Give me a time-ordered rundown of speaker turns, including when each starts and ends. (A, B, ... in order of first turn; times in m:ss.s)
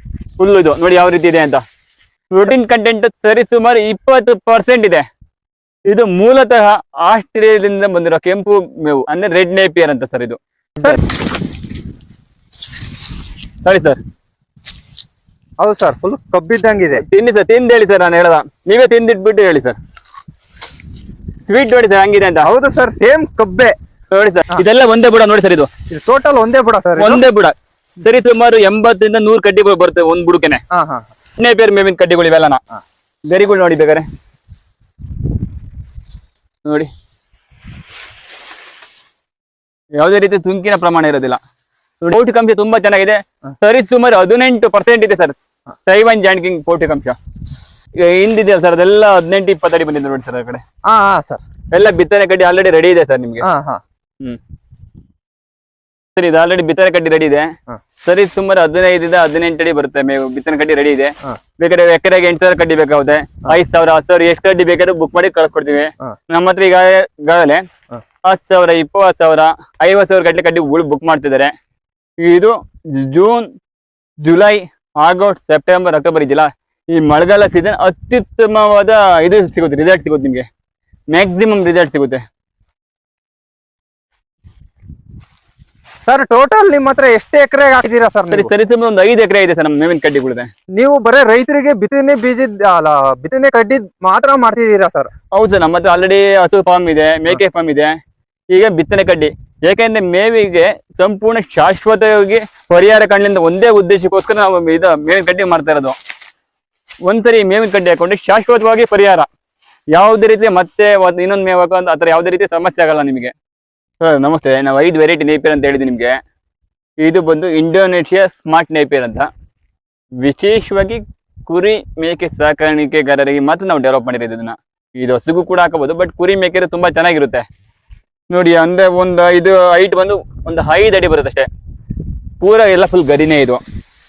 0:00.4-0:01.6 A
0:02.3-0:05.1 A
0:05.9-0:11.0 A
0:13.6-0:14.0 A
0:15.6-0:17.0 B
0:17.0-0:19.8 A
0:21.5-0:22.5 A
0:22.4-0:23.8 B
0:24.1-0:25.7 A
0:25.9-0:27.2 B
0:27.0-0:30.6 A
0:30.7-0:31.1 B
0:31.4-0:32.6 A
0:33.3-0:34.1 A
0:36.6-0:36.9 A
0:40.0-0:41.4 A
0:42.0-0:47.2 A
0:48.0-0:50.6 A
0:50.8-0:51.4 B
0:51.7-0:53.5 A
0:53.4-0:53.8 B
0:56.2-0:57.5 A
0:58.0-1:07.6 A
1:08.2-1:11.5 A
1:12.2-1:13.5 A
1:14.2-1:20.5 A
1:21.1-1:22.2 A
1:26.1-1:28.5 B
1:28.3-1:30.5 A
1:30.8-1:35.1 B
1:35.3-1:38.0 A
1:38.5-1:46.0 A
1:47.0-1:49.3 A
1:49.9-1:53.3 A
1:54.0-1:56.2 A
1:57.0-1:59.3 A
2:00.2-2:07.5 A
2:08.3-2:11.5 A
2:12.4-2:13.6 A